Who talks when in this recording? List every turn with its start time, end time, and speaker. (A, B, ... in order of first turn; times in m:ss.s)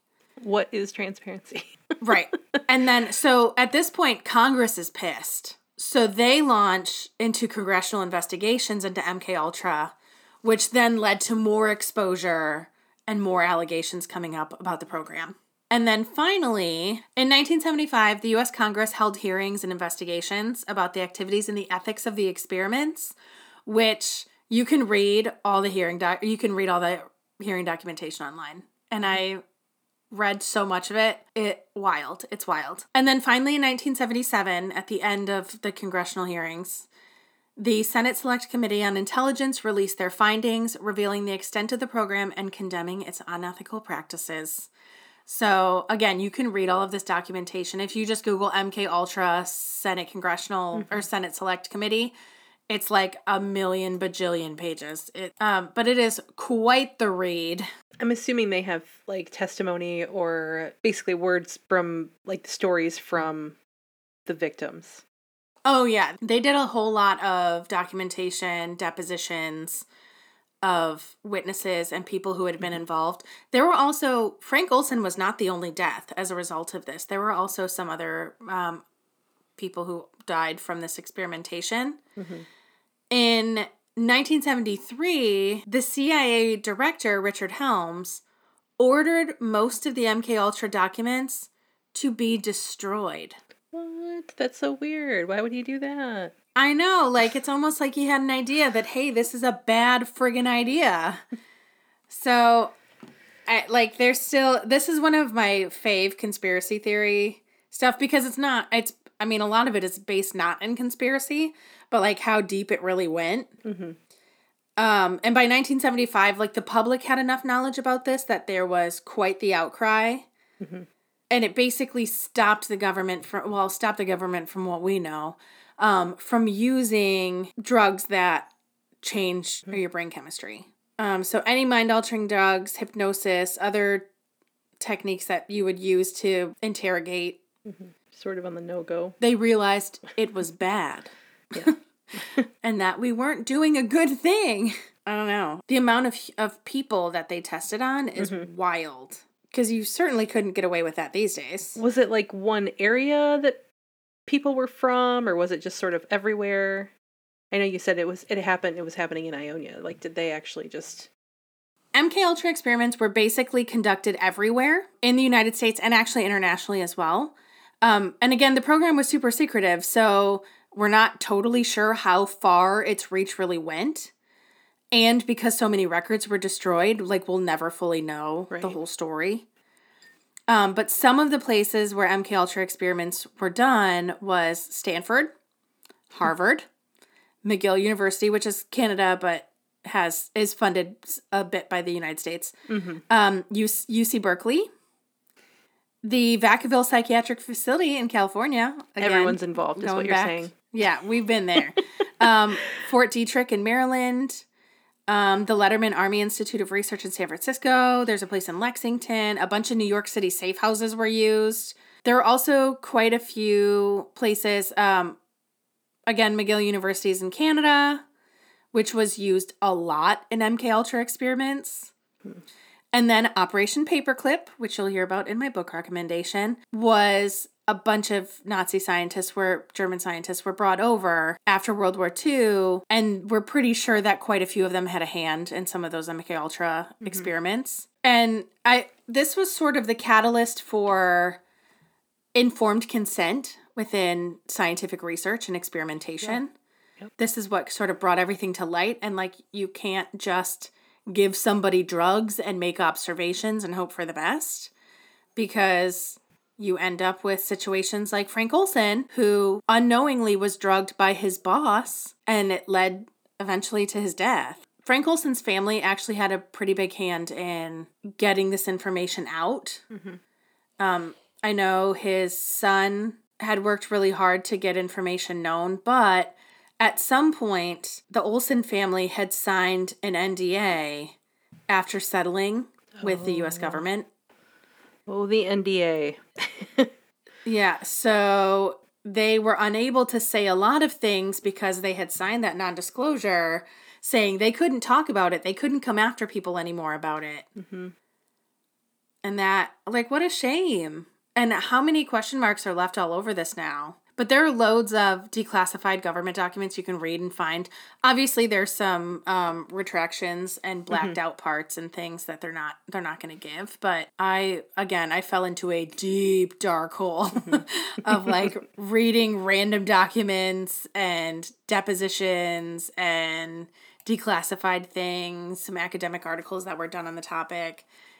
0:00.4-0:02.6 A
0:02.0-0:23.1 B
0:23.6-0:29.4 B
0:30.1-0:36.9 B
0:37.6-0:44.7 B
0:45.2-0:52.1 B
0:50.7-0:51.1 A
0:52.7-0:57.6 B
0:58.0-1:03.6 A
1:04.2-1:05.0 A
1:05.6-1:09.8 B
1:10.6-1:18.8 B
1:19.6-1:22.0 B
1:22.2-1:22.5 A
1:23.1-1:28.2 B
1:28.8-1:33.3 B
1:33.7-1:36.3 A
1:36.5-1:41.2 B
1:42.1-1:42.7 B
1:43.5-1:53.5 B
1:53.6-1:54.0 A
1:54.8-2:00.3 B
2:00.6-2:00.9 A
2:01.3-2:08.5 B
2:09.0-2:14.1 B
2:14.8-2:17.4 B
2:17.6-2:19.2 A
2:19.2-2:21.8 B
2:21.5-2:22.5 A
2:22.6-2:31.8 B
2:28.2-2:28.5 A
2:31.8-2:33.6 A
2:34.2-2:36.9 A
2:37.5-2:41.1 A
2:41.9-2:54.1 B
2:54.9-2:59.4 B
2:58.5-2:58.8 A
3:00.5-3:05.3 B
3:06.1-3:06.6 B
3:07.4-3:12.5 B
3:12.7-3:13.0 A
3:13.1-3:14.7 B
3:16.0-3:24.4 B
3:19.0-3:20.5 A
3:25.1-3:35.2 B
3:36.1-3:38.0 B
3:38.7-3:41.9 B
3:42.9-4:01.4 B
3:57.0-3:57.3 A
4:02.3-4:06.5 B
4:07.2-4:14.7 B
4:15.4-4:29.8 B
4:29.9-4:30.2 A
4:30.8-4:41.1 B
4:41.7-4:44.1 B
4:43.0-4:43.8 A
4:45.1-4:46.9 A
4:47.4-4:57.5 B
4:57.6-4:57.9 A
4:59.2-5:27.9 B
5:10.9-5:11.2 A
5:17.3-5:18.5 A